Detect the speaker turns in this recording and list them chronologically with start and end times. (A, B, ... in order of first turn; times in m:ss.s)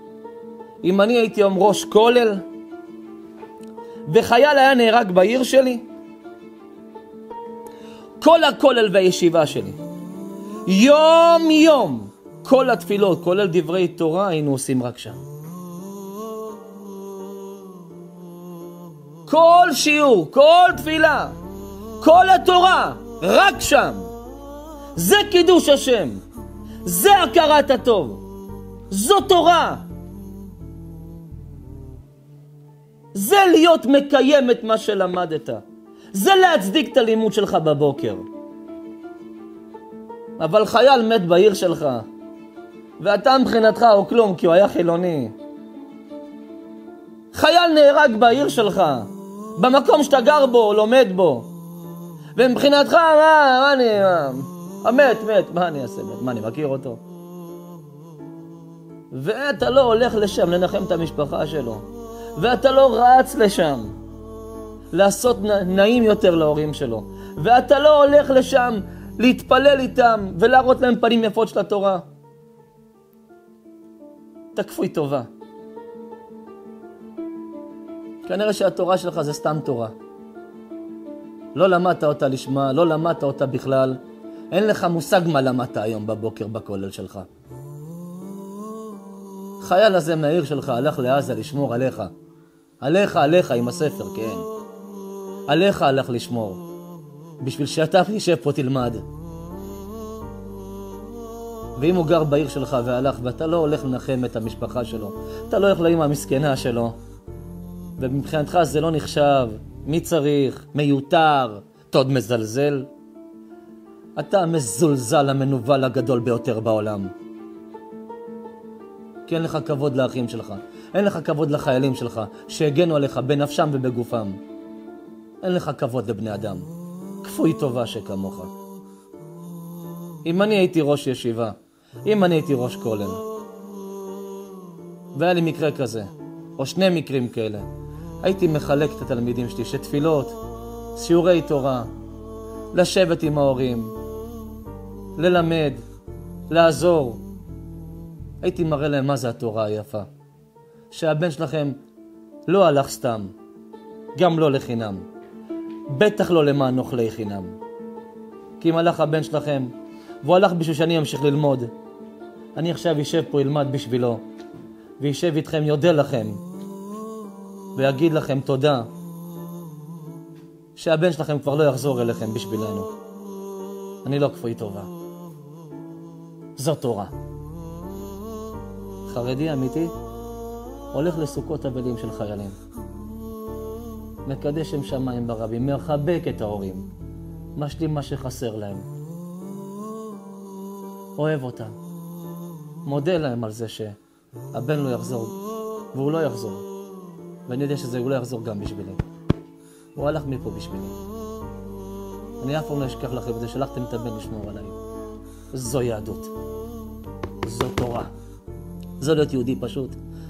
0:00.8-0:02.4 A
0:04.1-0:05.8 A
0:08.2-0:09.8 A
0:10.6-0:15.2 A
0:19.3-0:21.3 A
0:22.0-0:24.1 A
0:24.9-0:26.2 A
0:26.8-0:28.2 A
0:28.9-0:29.8 A
0:33.1-0:38.2 A
0:40.4-0:42.0 A
0:43.0-0:45.3 A
0:47.3-0:51.5 A
0:52.3-0:57.0 A
0:59.1-1:03.9 A
1:04.9-1:12.0 A
1:14.5-1:15.3 A
1:18.2-1:19.9 A
1:21.5-1:24.0 A
1:24.5-1:27.3 A
1:29.6-1:32.1 A
1:32.8-1:34.5 A
1:35.5-1:36.6 A
1:37.4-1:39.0 A
1:41.8-1:47.0 A
1:48.0-1:52.9 A
1:54.2-1:57.1 A
1:59.3-2:04.4 A
2:05.4-2:06.6 A
2:07.2-2:08.5 A
2:10.2-2:13.2 A
2:15.1-2:17.6 A
2:18.2-2:20.4 A
2:20.9-2:21.9 A
2:22.7-2:23.9 A
2:25.2-2:25.8 A
2:26.5-2:27.2 A
2:28.4-2:30.1 A
2:30.9-2:31.8 A
2:32.5-2:33.3 A
2:34.1-2:35.0 A
2:35.9-2:37.5 A
2:38.6-2:41.7 A
2:42.5-2:44.2 A
2:45.0-2:46.4 A
2:47.8-2:48.9 A
2:50.8-2:52.9 A
2:54.0-2:54.9 A
2:56.6-2:57.1 A
2:59.1-2:59.9 A
3:00.9-3:02.5 A
3:04.2-3:06.9 A
3:07.6-3:08.8 A
3:11.2-3:11.8 A
3:12.8-3:14.0 A
3:14.5-3:15.3 A
3:15.9-3:16.6 A
3:17.5-3:19.0 A
3:19.9-3:20.9 A
3:22.4-3:24.8 A
3:25.5-3:26.3 A
3:27.4-3:28.1 A
3:29.0-3:30.0 A